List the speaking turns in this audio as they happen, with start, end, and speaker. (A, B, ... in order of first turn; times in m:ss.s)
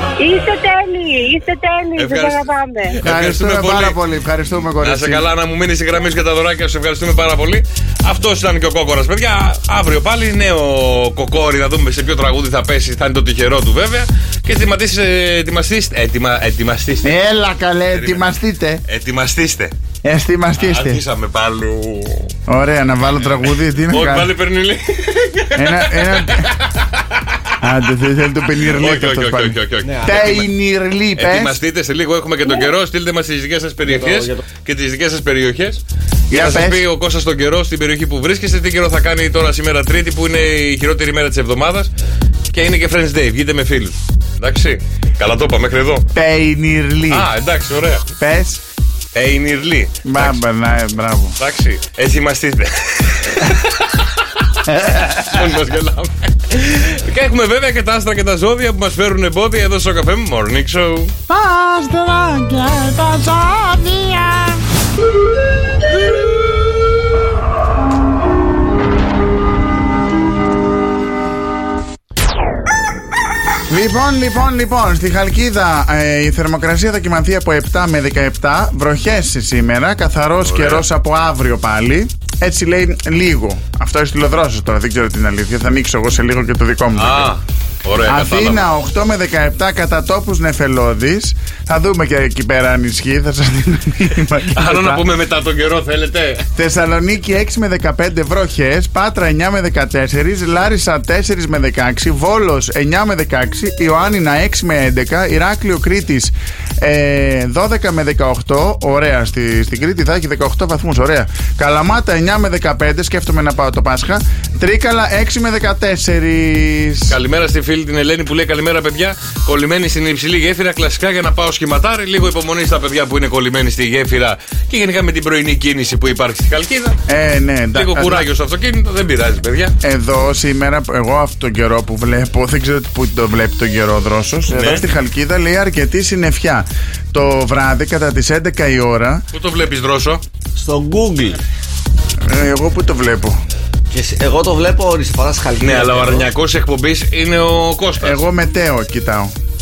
0:00.2-0:03.0 A
0:02.0-0:04.0 B
0:03.0-0:05.3 C
0:04.8-0:17.2 B
0:17.0-0:18.8 C
0:17.9-0:18.2 B
0:18.8-0:19.7 B
0:20.0-0:21.0 C
0:20.6-0:22.3 B
0:22.5-0:24.3 C
0:23.8-0:27.3 B
0:25.6-0:26.5 C
0:27.6-0:31.6 C
0:28.6-0:30.5 B
0:29.8-0:30.2 D
0:31.2-0:41.9 B
0:33.8-0:34.4 D
0:36.3-0:36.8 C
0:42.5-0:46.1 B
0:46.1-0:47.3 C
0:47.1-0:48.1 B
0:48.2-0:48.6 C
0:49.1-0:50.4 B
0:50.0-0:51.4 C
0:51.4-0:54.1 B
0:54.9-1:01.1 B
1:01.3-1:04.6 C
1:13.7-1:27.3 C
1:20.4-1:20.8 B
1:27.0-1:28.7 B
1:28.0-1:35.0 C
1:34.5-1:36.5 B
1:36.5-1:57.2 C
1:57.1-2:07.0 B
2:07.1-2:08.3 C
2:07.7-2:09.7 B
2:09.8-2:19.2 C
2:14.5-2:14.8 B
2:19.3-2:20.2 B
2:20.5-2:21.4 D
2:22.2-2:23.4 C
2:23.9-2:26.3 D
2:25.6-2:28.2 B
2:28.0-2:29.3 C